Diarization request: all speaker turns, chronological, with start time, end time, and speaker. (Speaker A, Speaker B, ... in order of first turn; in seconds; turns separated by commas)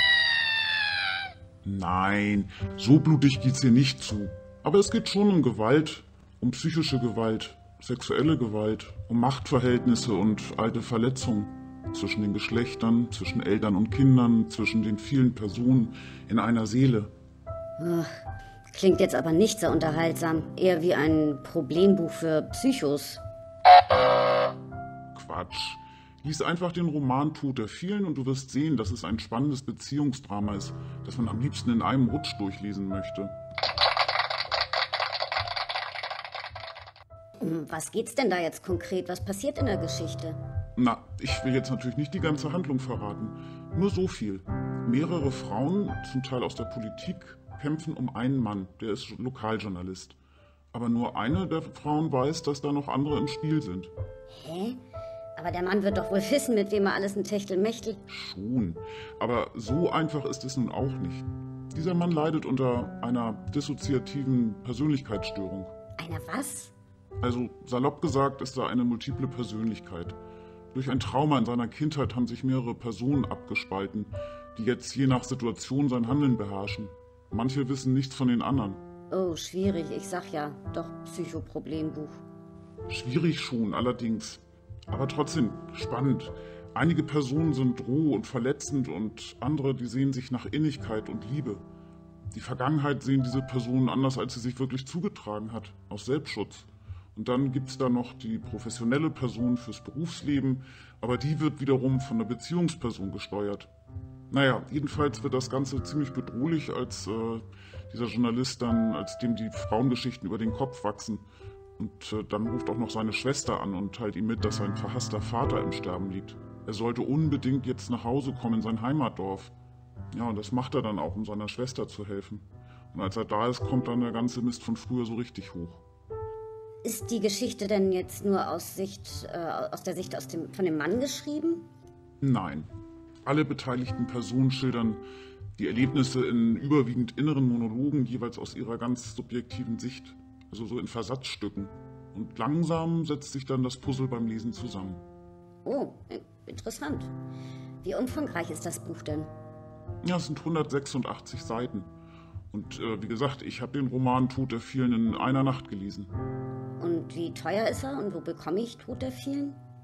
Speaker A: 1.6-17.1, Speaker B: 17.8-18.1, Speaker B: 18.7-23.2, Speaker A: 25.1-33.3, Speaker B: 37.4-40.4, Speaker A: 40.8-50.2, Speaker A: 50.7-53.9, Speaker B: 54.3-54.8, Speaker B: 55.4-58.0, Speaker A: 58.1-65.7, Speaker B: 66.0-66.7, Speaker A: 67.2-70.2, Speaker A: 70.7-78.8, Speaker B: 79.1-82.2, Speaker A: 82.9-91.6, Speaker A: 92.3-103.7, Speaker A: 104.3-111.2, Speaker A: 111.8-119.5, Speaker A: 120.1-125.8, Speaker B: 126.8-131.6, Speaker A: 132.2-132.7, Speaker A: 133.2-135.0, Speaker A: 135.6-145.0, Speaker B: 145.6-147.1, Speaker B: 147.8-149.3, Speaker A: 150.0-151.9, Speaker A: 152.5-156.1, Speaker B: 156.8-159.6